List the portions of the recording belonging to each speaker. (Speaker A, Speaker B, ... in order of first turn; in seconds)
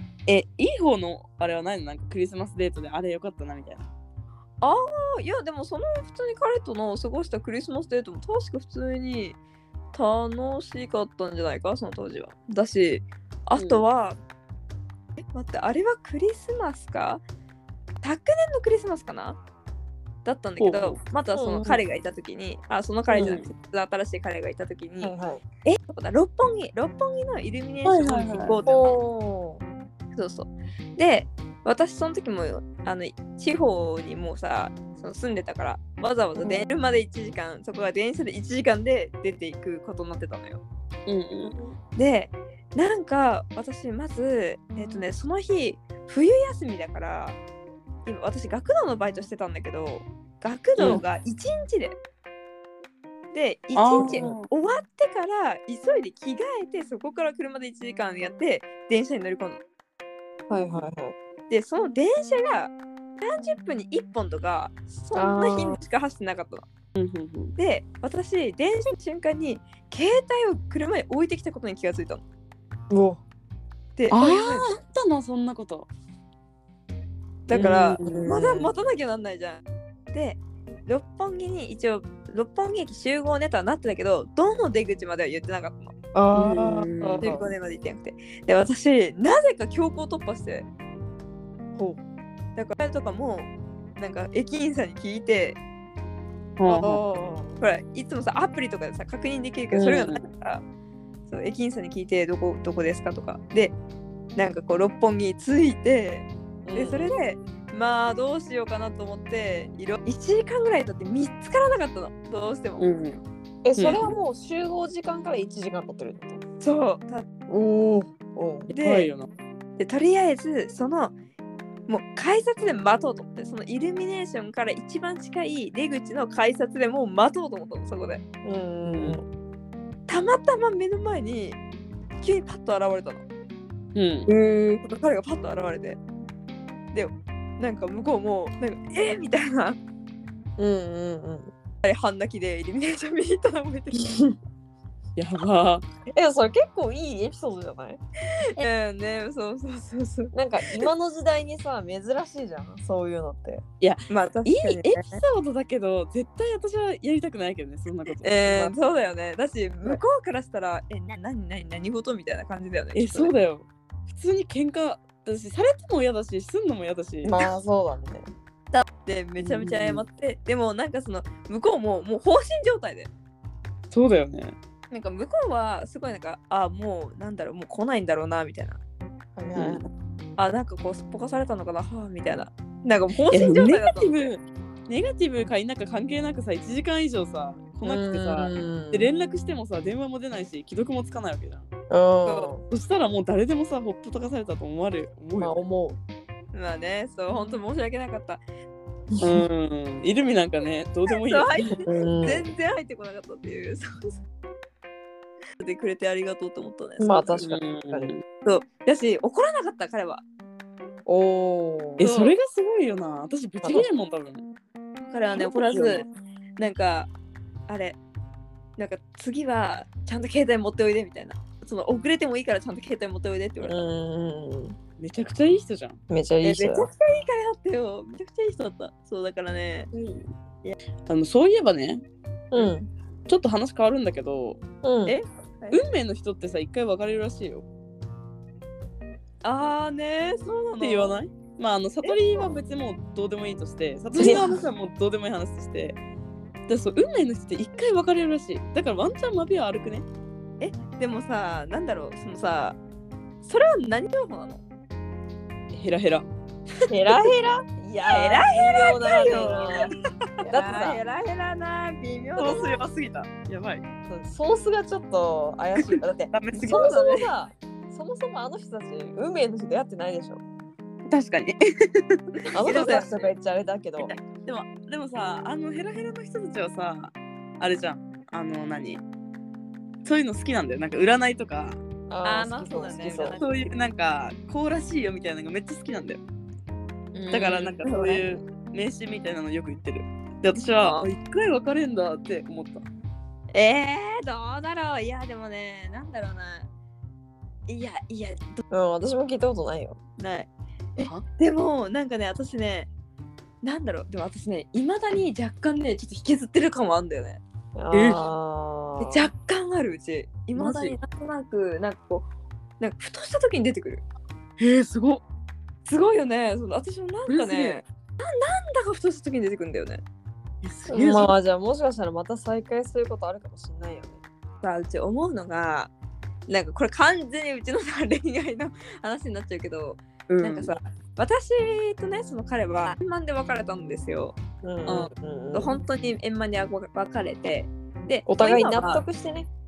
Speaker A: 0.3-3.9, 13.6-13.8, 20.6-21.0, 23.1-23.5, 27.8-28.6, 41.1-41.7, 50.8-51.0, 53.8-54.5, 66.9-67.5, 74.1-75.9, 77.5-78.3, 86.3-87.3, 96.6-97.0, 99.7-100.2, 112.8-113.2, 113.8-114.1, 118.8-119.3, 128.8-129.2, 133.9-134.3, 145.2-145.8, 153.8-158.7, 162.9-167.3, 169.4-170.0, 173.9-174.5, 179.5-179.9, 183.3-191.7, 192.7-195.5, 199.2-201.7, 207.4-208.2, 212.0-214.4, 215.3-216.0, 225.0-226.0, 229.9-230.2, 231.1-232.0, 233.3-234.6, 235.7-237.6, 240.8-246.0, 246.7-250.1, 255.7-256.2, 259.1-259.9, 262.4-263.8, 265.8-266.9, 271.1-272.2, 274.0-279.0, 280.0-281.8, 283.4-286.2, 287.3-292.8, 301.0-301.2, 307.9-308.2, 310.6-311.0, 314.6-315.2, 317.3-317.8, 320.6-321.3, 330.3-330.7
Speaker B: 4.6-9.4, 9.9-14.2, 15.3-17.2, 18.0-19.4, 20.2-25.1, 25.6-28.9, 30.1-40.6, 41.9-47.4, 48.0-52.0, 53.3-59.6, 61.5-66.7, 67.5-72.2, 74.0-74.7, 77.5-85.9, 87.2-90.7, 92.5-95.6, 97.6-100.6, 101.3-103.8, 104.3-112.9, 116.6-117.3, 118.7-119.1, 119.8-121.1, 121.9-128.2, 130.1-131.6, 132.2-133.2, 134.3-136.0, 136.9-139.8, 141.8-144.2, 148.4-150.9, 154.1-155.2, 158.2-163.3, 168.7-173.1, 174.9-178.8, 180.4-184.3, 192.2-192.5, 196.5-198.4, 201.1-204.2, 205.6-207.4, 208.4-210.2, 212.0-212.3, 215.1-216.1, 216.6-217.1, 217.7-218.0, 218.8-223.8, 226.4-229.9, 235.1-235.8, 239.4-241.2, 242.0-242.4, 250.6-252.8, 253.4-254.6, 258.0-259.9, 260.4-262.8, 266.5-267.3, 272.3-273.1, 282.2-283.5, 287.1-288.2, 290.8-291.1, 293.5-296.7, 297.7-298.6, 300.2-302.9, 303.6-307.4, 309.0-312.3, 312.8-314.0, 315.9-320.0, 324.6-325.9, 326.5-339.0
Speaker C: 21.3-21.8, 23.1-23.4, 25.0-25.4, 28.6-29.6, 36.4-36.7, 54.0-54.4, 60.5-61.1, 65.1-65.8, 72.9-73.2, 77.5-78.7, 86.1-87.5, 96.7-97.6, 106.6-107.2, 113.6-116.4, 117.5-118.7, 128.4-129.2, 140.6-141.5, 146.1-148.0, 150.3-153.6, 167.2-168.3, 179.3-179.8, 187.8-189.1, 191.9-192.6, 195.4-196.0, 199.1-199.4, 201.8-202.5, 207.0-208.1, 211.1-212.1, 213.6-213.9, 223.6-224.8, 226.1-226.9, 232.5-232.9, 234.8-235.2, 244.2-244.6, 256.9-259.9, 260.5-261.0, 264.1-270.4, 272.5-274.1, 282.1-283.4, 298.7-300.0, 307.7-309.3, 320.9-324.2, 334.6-335.8, 338.2-339.5